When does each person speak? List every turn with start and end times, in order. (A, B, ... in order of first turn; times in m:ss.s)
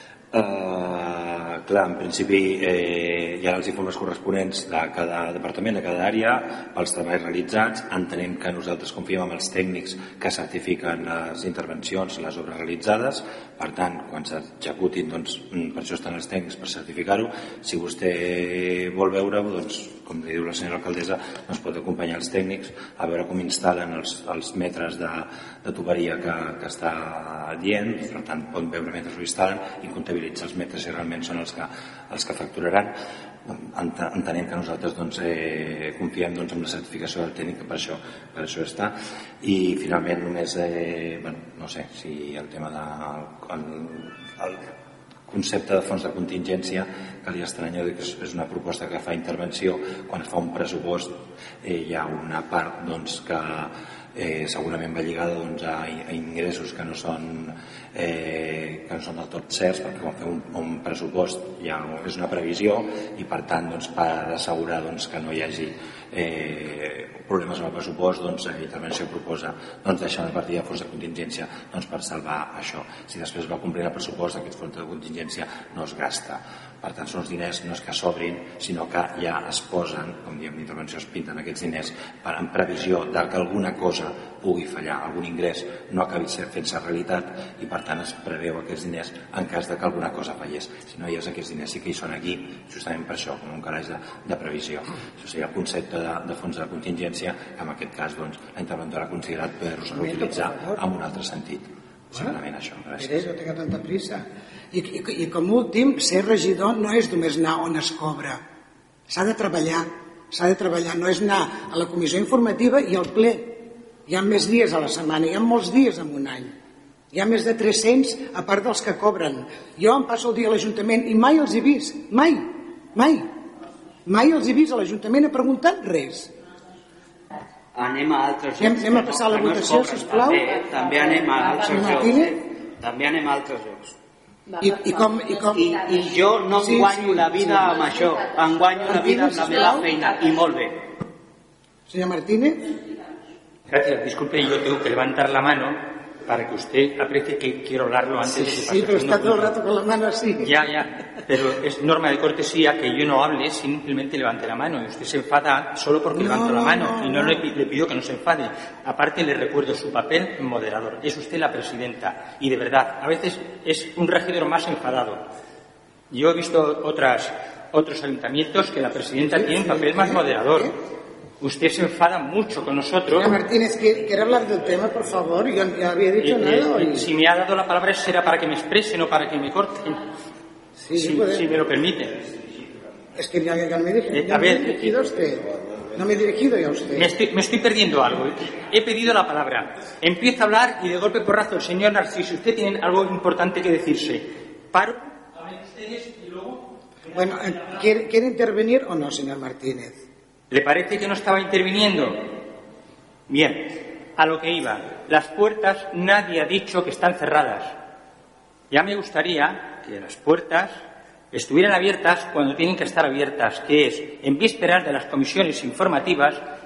0:00.3-0:44.6 A
0:45.3-1:43.2 A
1:39.9-1:40.8 B
1:43.0-1:48.4 B
1:49.1-1:56.5 B
1:57.1-2:03.3 B
2:04.0-2:06.3 B
2:07.7-2:13.9 C
2:08.6-2:10.4 B
2:11.6-2:12.4 B
2:14.6-2:15.8 B
2:15.5-2:20.8 C
2:16.6-2:17.7 B
2:18.8-2:19.8 B
2:21.9-2:22.7 B
2:23.7-2:29.5 D
2:28.2-2:30.6 B
2:30.4-2:45.2 D
2:36.1-2:37.4 B
2:46.1-2:50.7 D
2:49.2-2:50.7 B
2:51.4-2:53.3 D
2:53.1-2:57.1 B
2:56.2-3:00.1 D
3:00.8-3:01.5 B
3:00.9-3:02.2 D
3:03.2-3:07.1 B
3:04.1-3:04.9 D
3:07.0-3:17.7 D
3:17.1-3:20.0 B
3:20.5-3:22.4 D
3:23.3-3:27.8 D
3:28.7-3:36.5 D